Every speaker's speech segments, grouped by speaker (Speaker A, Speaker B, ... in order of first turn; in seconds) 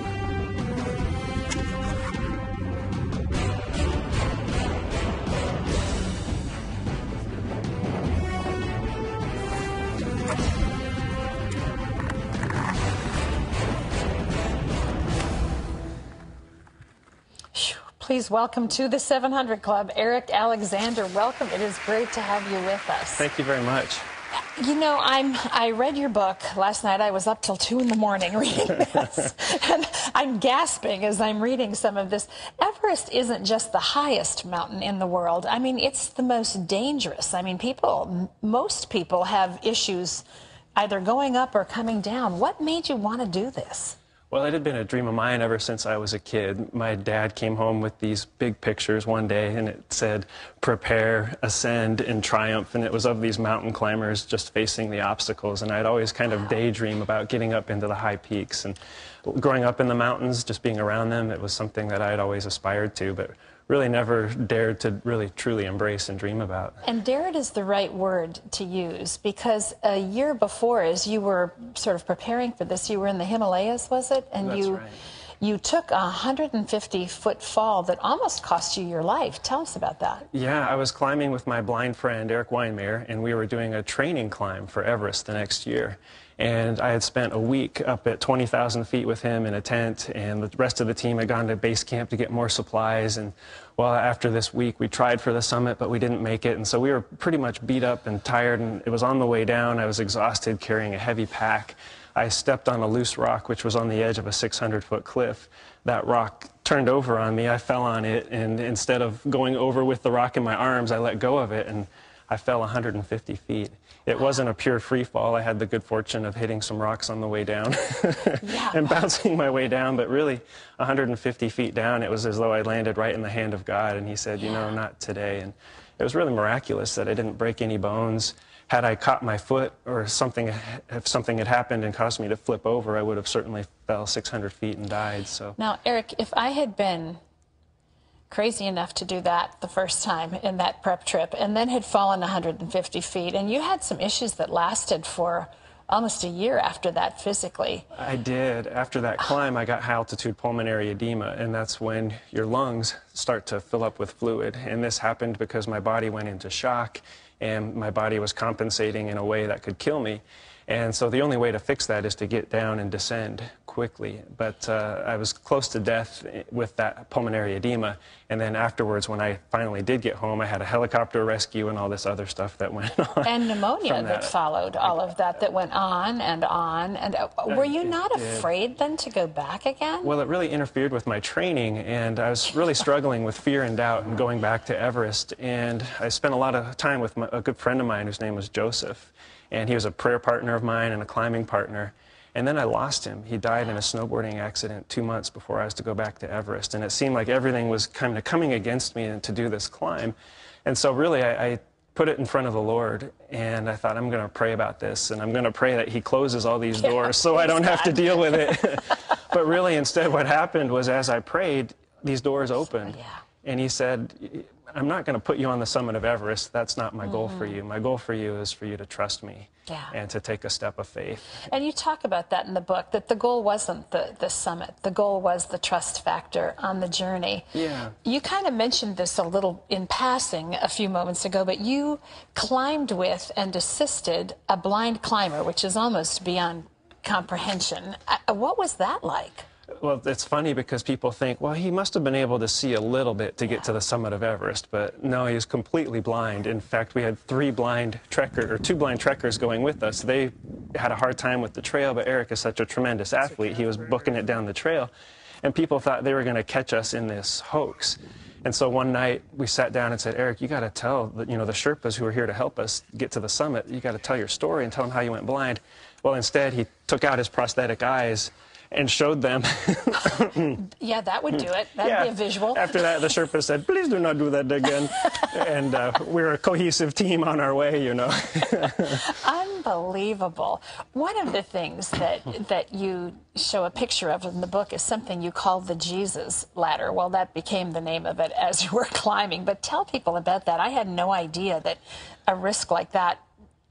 Speaker A: 17.5-23.3, 24.6-40.2, 40.8-44.0, 66.8-74.8, 75.4-80.3, 118.4-118.9, 135.6-137.2, 138.3-147.8, 173.2-180.1, 206.8-208.6, 212.9-213.2, 219.7-219.9, 221.5-239.5, 270.6-272.8, 279.0-293.2
Speaker B: 23.2-24.1, 44.3-66.8, 74.4-75.0, 80.3-135.6, 147.9-174.3, 177.5-178.5, 180.0-221.5, 227.5-227.9, 239.8-254.9, 255.4-270.6, 271.8-279.1